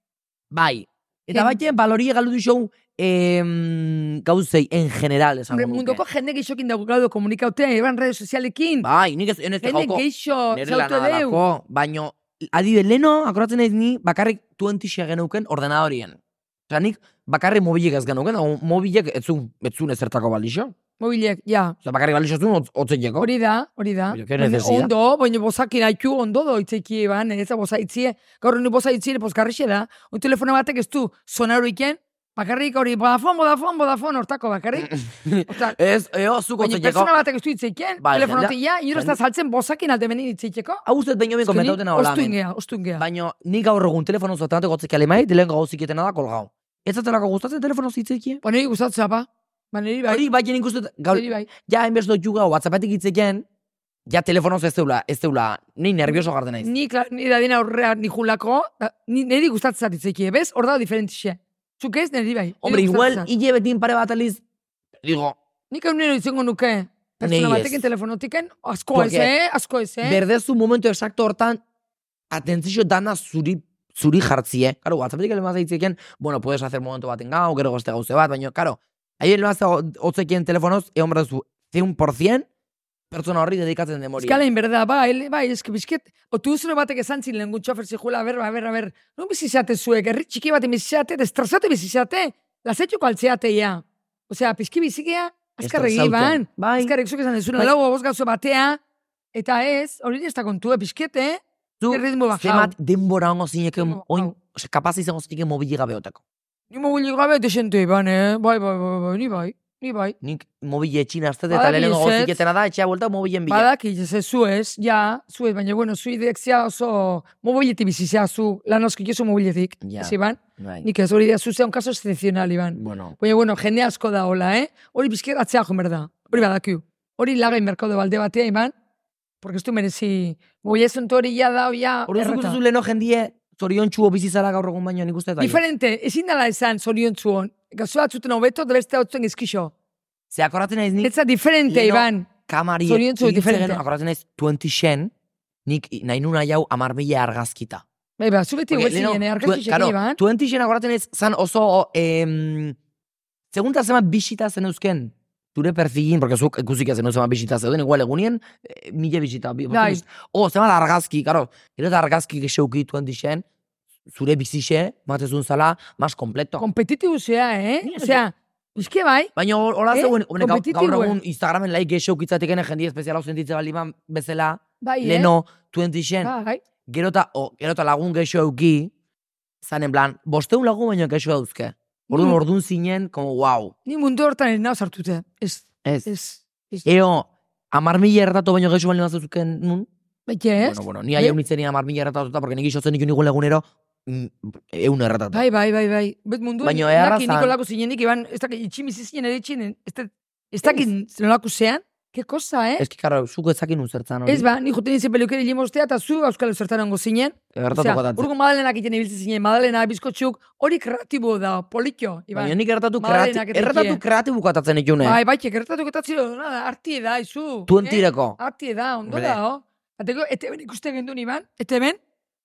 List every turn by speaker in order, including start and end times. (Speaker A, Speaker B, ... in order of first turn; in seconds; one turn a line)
Speaker A: 0.5-6.0
Speaker B: 1.3-1.6
Speaker B: 5.5-8.9
Speaker A: 8.8-20.7
Speaker B: 9.6-11.4
Speaker B: 21.0-21.8
Speaker A: 21.8-23.3
Speaker B: 23.2-34.9
Speaker A: 24.1-24.9
Speaker A: 34.8-37.1
Speaker B: 35.5-35.8
Speaker B: 36.6-40.8
Speaker A: 38.0-39.2
Speaker A: 40.9-42.4
Speaker B: 41.4-43.0
Speaker A: 43.0-48.4
Speaker B: 48.4-50.2
Speaker A: 50.1-53.4
Speaker B: 51.1-51.5
Speaker A: 54.0-56.7
Speaker B: 56.6-63.3
Speaker A: 62.6-64.4
Speaker A: 65.0-65.3
Speaker B: 65.7-70.2
Speaker A: 67.2-67.8
Speaker A: 68.9-69.3
Speaker A: 70.0-71.6
Speaker A: 72.3-82.5
Speaker A: 83.1-84.4
Speaker B: 84.2-98.8
Speaker A: 95.6-96.9
Speaker B: 99.3-102.7
Speaker A: 101.8-106.2
Speaker B: 103.8-104.3
Speaker B: 106.7-110.2
Speaker A: 110.2-113.7
Speaker B: 111.5-112.4
Speaker B: 113.5-128.7
Speaker A: 119.8-120.8
Speaker A: 122.8-123.1
Speaker B: 129.4-132.6
Speaker A: 132.1-135.6
Speaker B: 135.4-139.7
Speaker A: 140.3-141.1
Speaker B: 141.0-142.3
Speaker A: 141.7-145.1
Speaker B: 142.8-143.8
Speaker A: 145.7-147.8
Speaker B: 148.2-150.2
Speaker A: 148.7-152.8
Speaker A: 153.5-163.4
Speaker B: 159.7-160.0
Speaker A: 164.1-166.6
Speaker B: 166.6-169.3
Speaker A: 167.8-168.2
Speaker A: 169.3-176.3
Speaker B: 169.9-171.2
Speaker B: 174.8-175.3
Speaker B: 176.2-176.6
Speaker A: 176.9-178.9
Speaker A: 179.6-183.7
Speaker B: 182.1-182.4
Speaker B: 183.8-186.9
Speaker A: 186.8-189.9
Speaker B: 190.3-191.4
Speaker A: 190.6-195.4
Speaker B: 195.3-202.8
Speaker A: 196.6-197.5
Speaker A: 202.8-204.5
Speaker B: 204.2-214.0
Speaker A: 207.5-208.3
Speaker A: 212.3-215.2
Speaker B: 215.0-222.0
Speaker A: 217.7-218.4
Speaker A: 219.1-219.4